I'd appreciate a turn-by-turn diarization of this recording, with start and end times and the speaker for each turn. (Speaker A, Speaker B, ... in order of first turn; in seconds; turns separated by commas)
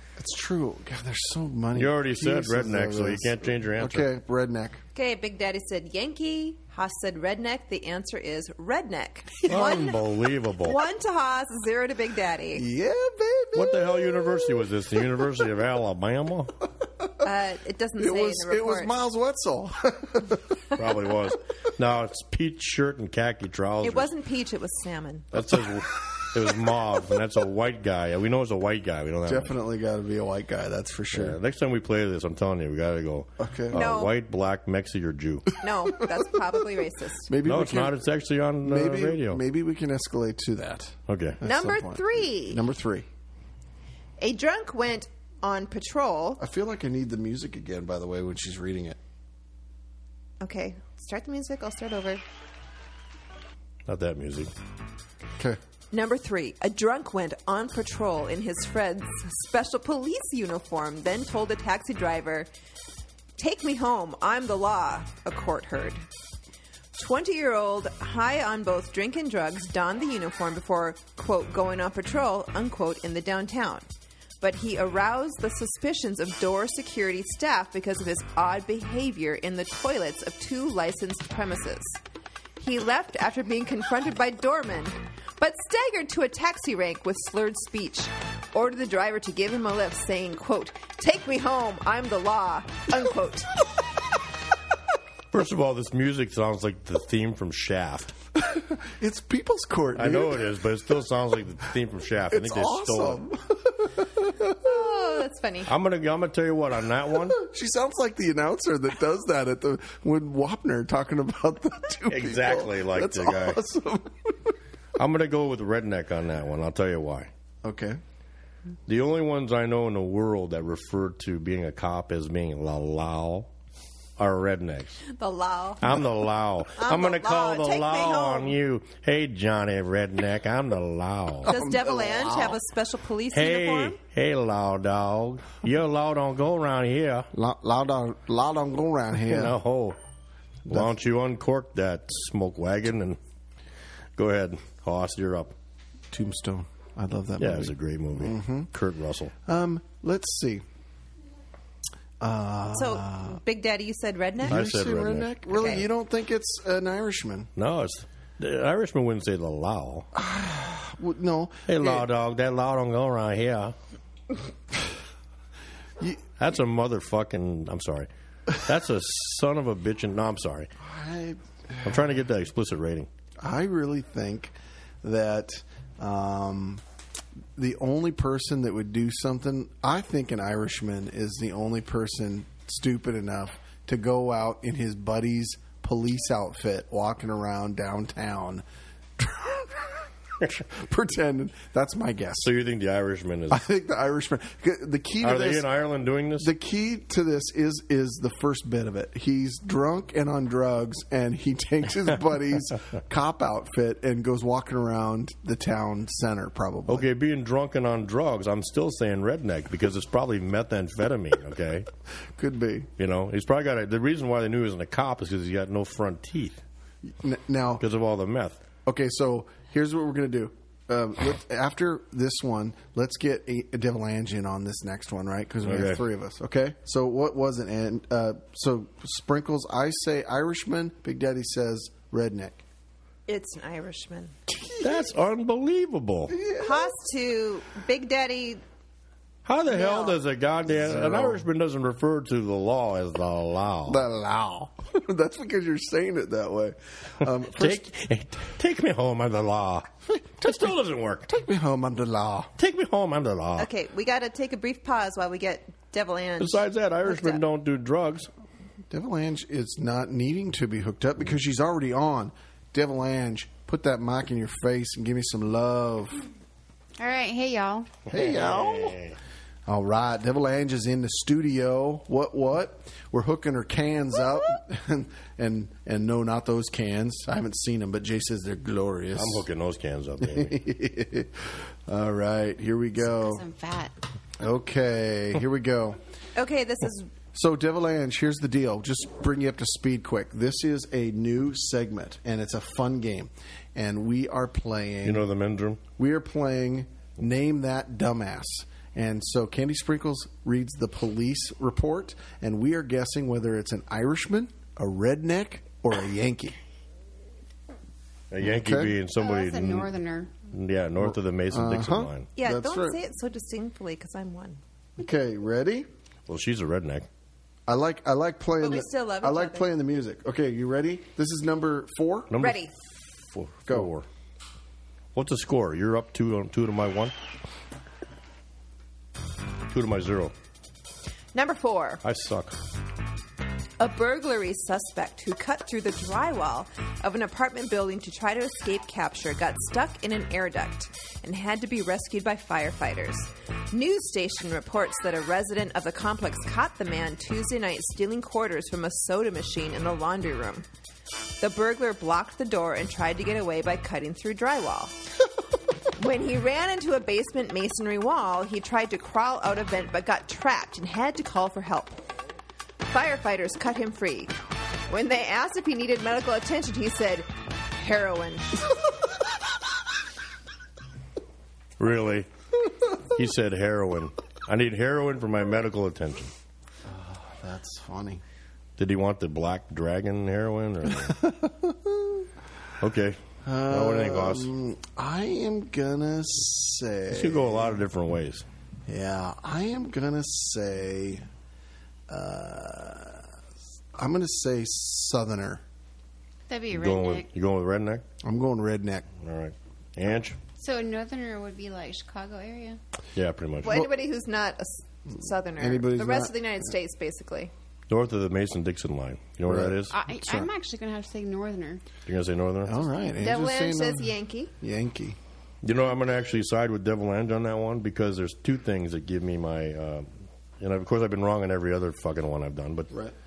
Speaker A: 0.2-4.8, Speaker B: 1.8-4.1, Speaker C: 5.0-10.1, Speaker B: 9.5-10.8, Speaker C: 10.6-12.7, Speaker A: 12.6-14.6, Speaker B: 13.5-16.5, Speaker C: 17.2-18.9, Speaker A: 18.0-20.6, Speaker B: 20.8-24.1, Speaker C: 23.8-25.3, Speaker B: 25.3-29.5, Speaker A: 29.3-31.4, Speaker B: 31.1-35.6, Speaker A: 33.4-33.8, Speaker C: 33.7-34.1, Speaker C: 35.6-37.3, Speaker A: 37.3-38.0, Speaker B: 37.5-39.4, Speaker A: 38.6-43.1, Speaker B: 41.1-41.4, Speaker C: 41.4-42.6, Speaker C: 44.2-46.4, Speaker A: 46.4-49.0, Speaker C: 50.4-52.2, Speaker B: 53.9-54.5, Speaker C: 55.9-62.5, Speaker C: 63.4-66.0, Speaker C: 67.0-73.9, Speaker C: 74.4-82.0, Speaker C: 82.6-93.5, Speaker B: 95.3-98.1, Speaker A: 98.4-100.5, Speaker B: 100.0-103.2, Speaker A: 102.3-104.7, Speaker C: 104.6-105.7, Speaker B: 105.7-107.4, Speaker A: 107.3-114.5, Speaker B: 112.1-113.6, Speaker B: 115.0-117.3, Speaker A: 117.6-118.0, Speaker B: 118.9-123.5, Speaker B: 124.2-125.0, Speaker C: 125.1-125.9, Speaker B: 125.8-131.6, Speaker C: 126.8-128.6, Speaker C: 131.5-134.0, Speaker A: 131.5-132.6, Speaker B: 133.3-137.3, Speaker A: 137.3-139.6, Speaker B: 139.2-140.0, Speaker B: 140.7-143.2, Speaker B: 144.2-145.6, Speaker A: 146.1-148.7, Speaker B: 147.4-149.3, Speaker A: 149.5-150.6, Speaker A: 152.2-153.4, Speaker C: 152.7-154.6, Speaker A: 154.4-157.5, Speaker B: 154.4-155.6, Speaker C: 155.5-155.8, Speaker B: 157.6-160.1, Speaker A: 160.1-162.1, Speaker B: 161.7-163.8, Speaker A: 166.0-166.2, Speaker B: 166.4-170.7, Speaker A: 170.8-172.1, Speaker B: 171.8-173.1, Speaker A: 173.4-176.8, Speaker A: 177.6-188.7, Speaker A: 189.2-192.5, Speaker B: 192.4-193.7, Speaker A: 193.5-195.7, Speaker B: 195.2-196.5, Speaker A: 196.4-207.1, Speaker B: 206.9-211.9, Speaker A: 212.4-212.9, Speaker B: 213.0-216.6, Speaker A: 217.1-217.8, Speaker B: 217.8-218.6, Speaker A: 218.9-232.6, Speaker B: 225.6-226.0, Speaker C: 233.3-234.3, Speaker A: 234.5-235.0, Speaker B: 234.8-236.4, Speaker A: 236.3-236.9, Speaker C: 236.6-238.6, Speaker B: 239.4-244.0, Speaker C: 239.7-240.2, Speaker A: 240.7-241.4, Speaker A: 243.9-247.8, Speaker B: 247.5-251.3, Speaker A: 250.1-250.7, Speaker A: 251.3-252.5, Speaker B: 252.6-253.7, Speaker C: 253.6-257.4, Speaker B: 256.4-258.3, Speaker A: 258.9-266.2, Speaker D: 267.0-267.9, Speaker B: 268.1-269.2, Speaker A: 268.1-269.0, Speaker A: 269.7-279.4, Speaker B: 279.1-280.6, Speaker A: 280.2-283.4, Speaker D: 283.0-283.9, Speaker A: 284.4-286.0, Speaker C: 286.4-287.1, Speaker A: 287.3-295.2, Speaker B: 295.0-295.8, Speaker A: 296.0-306.6, Speaker B: 308.3-309.9, Speaker A: 308.4-309.0, Speaker D: 309.2-310.3, Speaker B: 310.5-312.3, Speaker A: 311.0-313.0, Speaker C: 312.4-314.6, Speaker A: 315.0-315.9, Speaker B: 316.3-317.1, Speaker A: 317.7-322.4, Speaker C: 318.6-319.7, Speaker B: 322.3-322.7, Speaker C: 322.4-322.7, Speaker B: 323.3-324.1, Speaker B: 325.1-327.1, Speaker B: 329.7-330.3, Speaker C: 331.3-332.0, Speaker B: 332.0-332.6, Speaker C: 333.8-350.7, Speaker C: 351.4-354.9, Speaker C: 356.0-362.0, Speaker C: 362.9-364.4, Speaker C: 364.9-368.6, Speaker B: 371.8-372.3, Speaker B: 373.1-376.3, Speaker A: 376.9-378.2, Speaker B: 378.8-381.2, Speaker A: 381.1-382.2, Speaker B: 382.8-384.5, Speaker A: 383.4-387.8, Speaker B: 387.1-388.5, Speaker A: 388.9-391.2, Speaker A: 392.1-393.3, Speaker A: 394.0-395.6, Speaker D: 396.5-397.3, Speaker B: 396.7-398.0, Speaker A: 398.2-399.1, Speaker B: 399.2-400.4, Speaker D: 400.6-402.8, Speaker B: 403.2-403.9, Speaker C: 403.6-407.5, Speaker A: 405.6-406.3, Speaker B: 407.9-410.4, Speaker A: 409.5-409.8, Speaker D: 409.9-411.8, Speaker B: 412.1-412.8, Speaker A: 412.7-414.1, Speaker C: 413.2-414.5, Speaker A: 414.6-415.2, Speaker B: 415.6-422.9